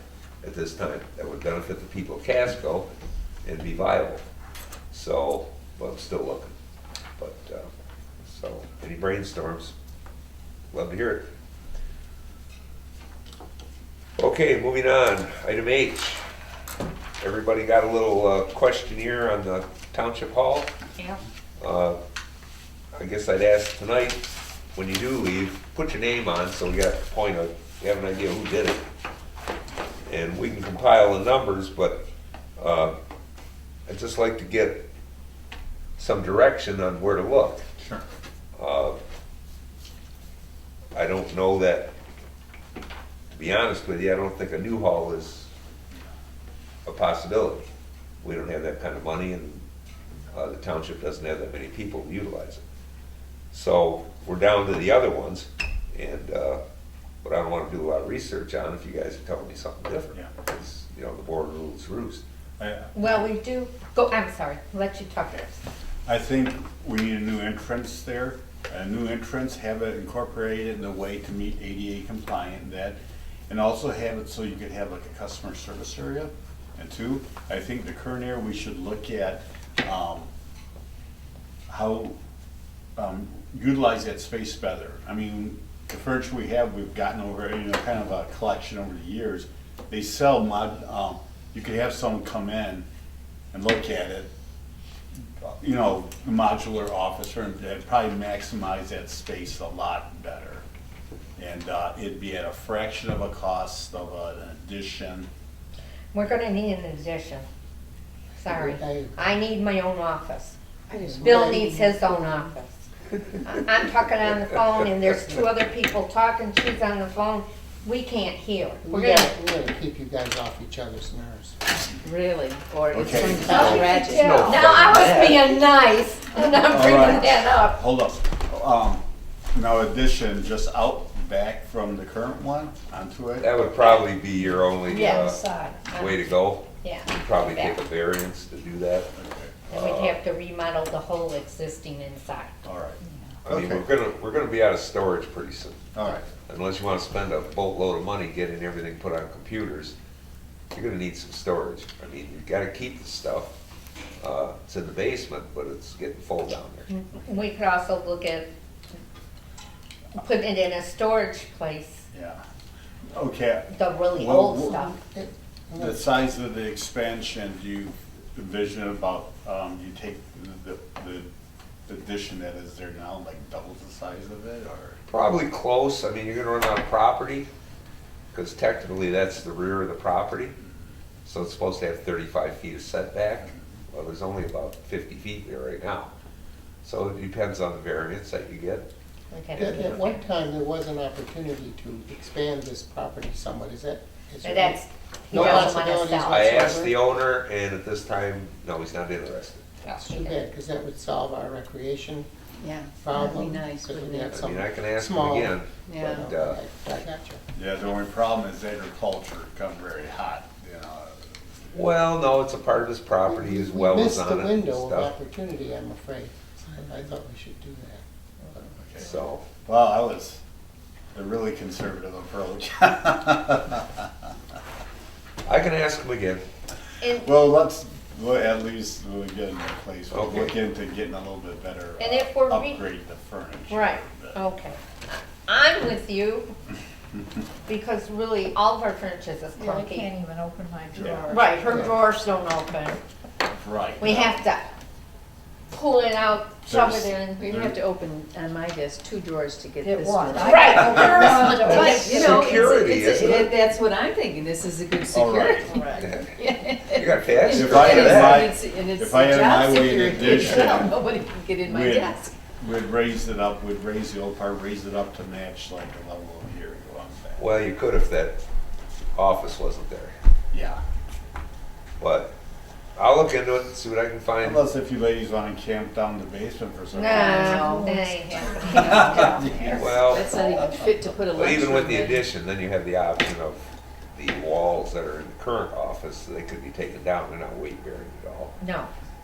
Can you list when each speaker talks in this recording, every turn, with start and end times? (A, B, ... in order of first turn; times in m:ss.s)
0:00.4-0:02.9 A
0:03.4-0:04.2 A
0:04.9-0:06.5 A
0:07.2-0:07.7 A
0:08.2-0:09.7 A
0:10.7-0:11.3 A
0:14.2-0:16.2 A
0:17.2-0:20.7 A
0:21.6-0:22.0 A
0:22.9-0:28.8 A
0:30.0-0:32.0 A
0:32.6-0:33.0 A
0:33.9-0:34.8 A
0:36.0-0:37.6 A
0:37.8-0:38.1 B
0:38.6-0:39.0 A
0:40.9-0:41.9 A
0:43.3-0:45.5 A
0:46.8-0:47.7 A
0:48.2-0:49.6 A
0:50.3-0:52.6 A
0:53.5-0:56.6 A
0:57.2-1:02.2 A
1:02.6-1:03.3 B
1:03.0-1:05.6 C
1:06.1-1:20.3 B
1:21.7-1:22.2 B
1:23.0-1:32.9 B
1:33.5-1:34.3 B
1:35.4-1:40.6 B
1:41.4-1:45.3 B
1:46.1-1:47.4 C
1:48.4-1:50.6 C
1:48.4-1:49.3 D
1:50.9-1:52.4 E
1:51.0-1:52.4 D
1:51.2-1:52.8 C
1:53.4-1:59.3 C
1:58.8-2:01.6 D
2:02.0-2:04.7 E
2:02.9-2:03.9 B
2:03.3-2:07.8 C
2:03.5-2:04.6 F
2:03.6-2:05.4 A
2:06.6-2:09.0 B
2:09.5-2:13.6 B
2:13.4-2:15.4 A
2:14.4-2:15.9 F
2:14.9-2:16.2 C
2:15.9-2:19.1 A
2:16.8-2:17.8 C
2:19.1-2:19.6 B
2:19.7-2:22.6 C
2:19.7-2:20.2 A
2:22.6-2:23.8 B
2:23.4-2:30.0 A
2:25.9-2:26.2 B
2:30.7-2:33.5 A
2:34.2-2:36.9 A
2:36.9-2:38.5 C
2:40.1-2:42.0 C
2:42.1-2:42.4 B
2:43.1-2:44.9 B
2:43.7-2:45.0 C
2:44.7-2:46.0 D
2:45.8-2:51.3 B
2:51.9-2:55.0 B
2:55.1-2:57.5 A
2:58.3-3:00.6 A
3:01.2-3:06.1 A
3:06.8-3:08.9 A
3:09.3-3:10.0 C
3:09.5-3:17.0 D
3:14.4-3:16.7 C
3:15.3-3:19.7 A
3:19.8-3:20.4 C
3:19.9-3:22.3 D
3:22.6-3:24.4 E
3:23.0-3:27.4 D
3:24.3-3:26.6 A
3:25.9-3:26.2 E
3:27.5-3:31.2 B
3:31.7-3:35.1 A
3:33.2-3:38.7 D
3:38.8-3:39.1 B
3:39.0-3:39.5 A
3:39.6-3:40.4 B
3:41.1-3:44.1 B
3:45.4-3:46.4 A
3:47.0-3:47.3 C
3:47.2-3:54.4 B
3:50.1-3:50.5 A
3:52.0-3:52.8 C
3:53.7-3:56.5 C
3:57.7-4:00.1 C
3:59.6-4:02.0 F
4:00.9-4:01.3 B
4:01.3-4:03.0 C
4:03.5-4:04.4 B
4:04.0-4:04.7 C
4:05.7-4:07.5 C
4:06.7-4:07.8 B
4:07.4-4:22.4 E
4:09.8-4:12.4 F
4:10.3-4:12.6 C
4:11.7-4:13.5 A
4:15.1-4:15.8 B
4:16.0-4:16.4 A
4:16.9-4:18.5 A
4:17.5-4:21.0 B
4:21.6-4:27.4 B
4:27.4-4:28.4 A
4:29.2-4:30.2 A
4:30.5-4:30.8 B
4:32.0-4:32.3 A
4:33.0-4:34.6 A
4:34.4-4:37.9 B
4:36.9-4:39.5 C
4:37.1-4:40.8 F
4:38.8-4:39.7 B
4:38.9-4:42.2 E
4:39.6-4:40.3 A
4:41.3-4:48.6 A
4:48.6-4:48.9 C